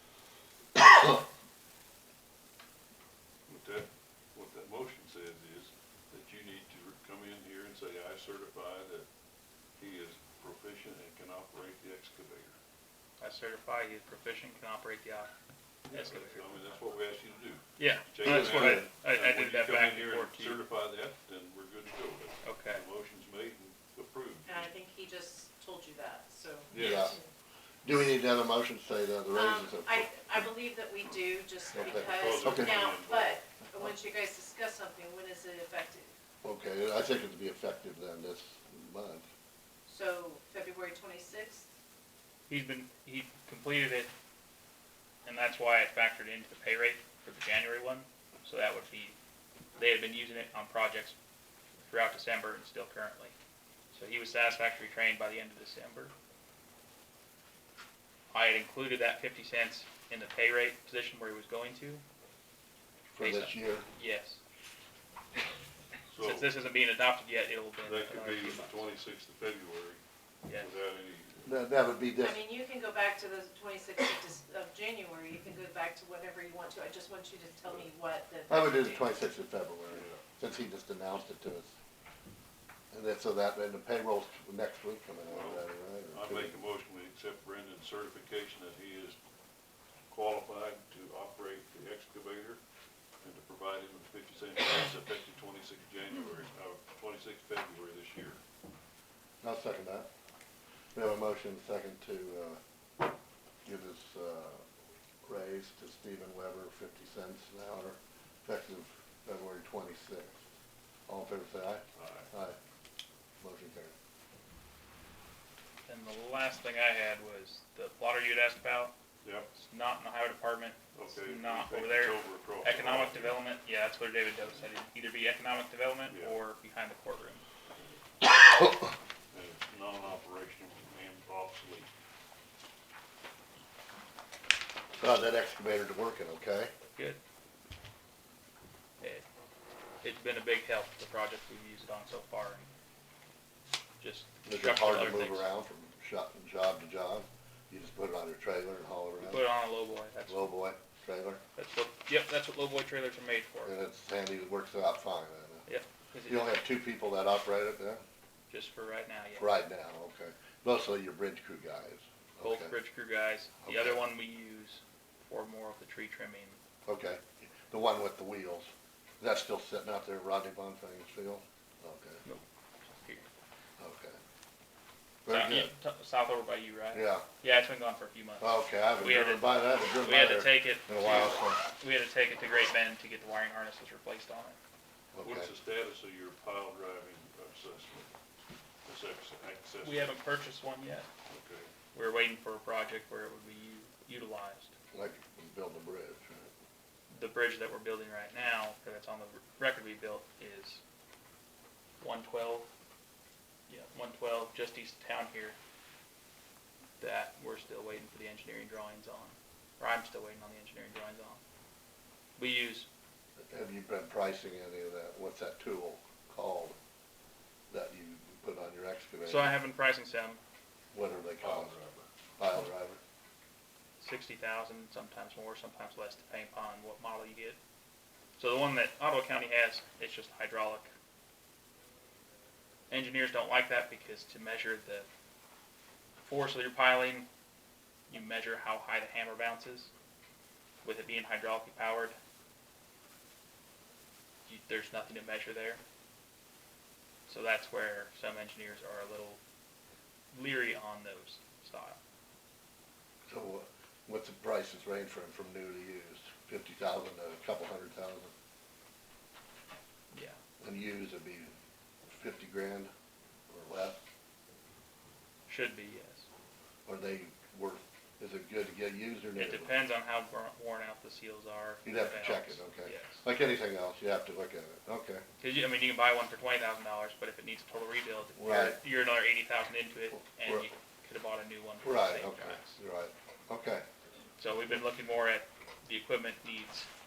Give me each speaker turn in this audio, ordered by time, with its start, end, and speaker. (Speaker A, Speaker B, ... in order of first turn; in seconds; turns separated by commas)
Speaker A: 0.8-1.3, Speaker B: 3.5-9.1, Speaker B: 9.8-12.6, Speaker C: 13.2-15.3, Speaker B: 15.9-24.7, Speaker C: 15.9-16.6, Speaker C: 17.8-20.6, Speaker A: 18.2-18.9, Speaker C: 22.4-22.8, Speaker D: 24.5-27.2, Speaker B: 26.7-27.1, Speaker A: 26.7-27.2, Speaker A: 27.8-30.4, Speaker D: 29.3-36.1, Speaker A: 31.7-32.8, Speaker B: 31.7-33.4, Speaker A: 36.4-39.3, Speaker D: 39.9-41.7, Speaker C: 42.5-44.1, Speaker C: 45.2-49.2, Speaker C: 49.8-51.1, Speaker C: 51.9-53.3, Speaker C: 53.9-56.1, Speaker C: 58.3-62.0, Speaker A: 63.1-63.9, Speaker C: 63.2-64.4, Speaker B: 66.1-66.5, Speaker C: 66.2-68.8, Speaker B: 67.8-70.0, Speaker B: 70.5-71.5, Speaker A: 71.5-72.4, Speaker D: 72.2-79.1, Speaker A: 78.5-81.7, Speaker B: 79.9-80.2, Speaker A: 82.9-86.6, Speaker B: 85.3-89.2, Speaker B: 90.1-92.6, Speaker B: 93.2-98.4, Speaker A: 99.4-100.1, Speaker A: 100.9-102.6, Speaker A: 103.7-104.6, Speaker A: 105.2-110.4, Speaker A: 111.1-112.6, Speaker B: 112.0-112.3, Speaker A: 113.4-113.9, Speaker C: 115.9-118.9, Speaker B: 119.2-119.5, Speaker C: 119.5-127.4, Speaker B: 121.0-123.4, Speaker B: 126.1-126.4, Speaker A: 128.2-128.9, Speaker B: 129.3-131.9, Speaker A: 134.9-136.7, Speaker C: 136.9-137.2, Speaker C: 140.0-142.7, Speaker C: 144.0-145.5, Speaker A: 144.4-149.4, Speaker C: 149.2-150.5, Speaker A: 150.3-151.4, Speaker C: 151.6-153.7, Speaker A: 153.7-155.7, Speaker C: 155.7-156.5, Speaker A: 156.3-158.0, Speaker C: 158.5-159.6, Speaker A: 159.4-162.7, Speaker C: 162.4-166.6, Speaker A: 163.6-164.1, Speaker A: 166.9-168.7, Speaker A: 169.2-172.2, Speaker C: 172.2-173.3, Speaker A: 173.8-174.2, Speaker A: 175.2-175.7, Speaker C: 175.3-184.6, Speaker A: 176.9-177.2, Speaker A: 178.4-181.6, Speaker A: 185.1-185.5, Speaker B: 185.2-188.1, Speaker B: 188.8-190.2, Speaker C: 189.8-191.1, Speaker B: 191.3-191.7, Speaker C: 191.9-194.7, Speaker A: 194.9-196.5, Speaker C: 197.1-200.8, Speaker C: 202.0-202.7, Speaker C: 203.7-205.6, Speaker C: 207.0-211.4, Speaker C: 212.4-212.9, Speaker A: 213.4-216.8, Speaker A: 217.7-219.6, Speaker C: 219.2-220.4, Speaker A: 220.9-221.7, Speaker B: 221.4-222.1, Speaker A: 222.4-223.0, Speaker C: 224.0-227.6, Speaker C: 228.4-230.9, Speaker C: 232.9-235.1, Speaker C: 236.2-237.3, Speaker C: 238.1-239.9, Speaker C: 240.8-242.2, Speaker C: 244.5-245.8, Speaker C: 247.3-249.4, Speaker C: 250.3-252.0, Speaker A: 253.3-258.3, Speaker C: 260.1-260.4, Speaker A: 260.6-261.5, Speaker A: 262.1-262.9, Speaker A: 263.5-264.0, Speaker C: 265.5-266.2, Speaker A: 266.9-269.7, Speaker C: 269.4-273.2, Speaker A: 271.9-275.2, Speaker C: 275.4-282.8, Speaker A: 278.4-278.8, Speaker A: 280.1-280.7, Speaker A: 281.8-283.8, Speaker C: 284.4-286.9